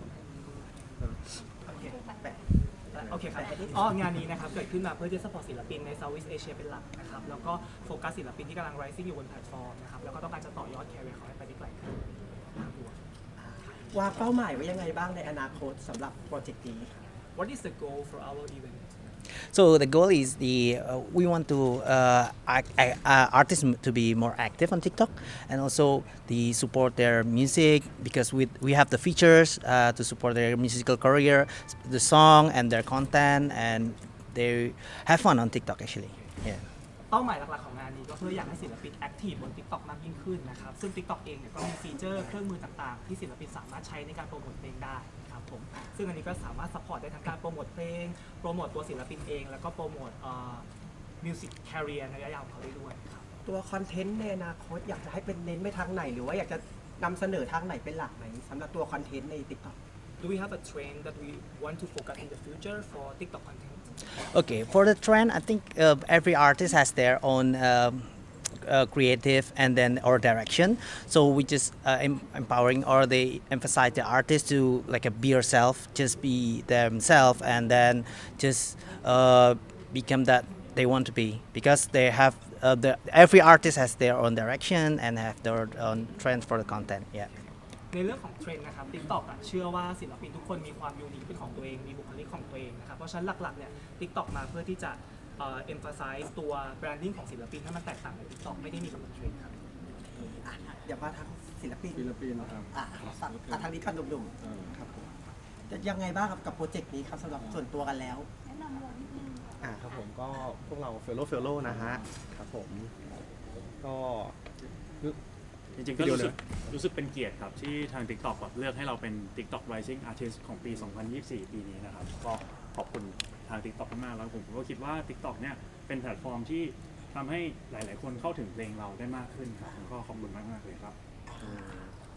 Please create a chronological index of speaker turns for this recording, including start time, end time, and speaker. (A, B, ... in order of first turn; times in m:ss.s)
0:01.6-0:02.4 A
0:02.9-0:13.0 B
0:03.0-0:03.7 A
0:13.4-0:17.0 A
0:17.4-0:19.1 B
0:19.5-0:36.6 C
0:37.1-0:50.7 B
0:51.2-0:53.2 B
0:53.4-0:59.8 A
1:00.2-1:03.8 B
1:04.1-1:08.1 C
1:08.6-1:27.3 C
1:27.9-1:39.6 B
1:40.0-1:45.1 A
1:45.7-1:48.3 A
1:49.7-1:52.9 D
1:50.7-1:52.0 A
1:53.8-1:54.3 D
1:55.8-2:11.0 E
1:55.9-1:56.3 D
2:11.4-2:11.9 A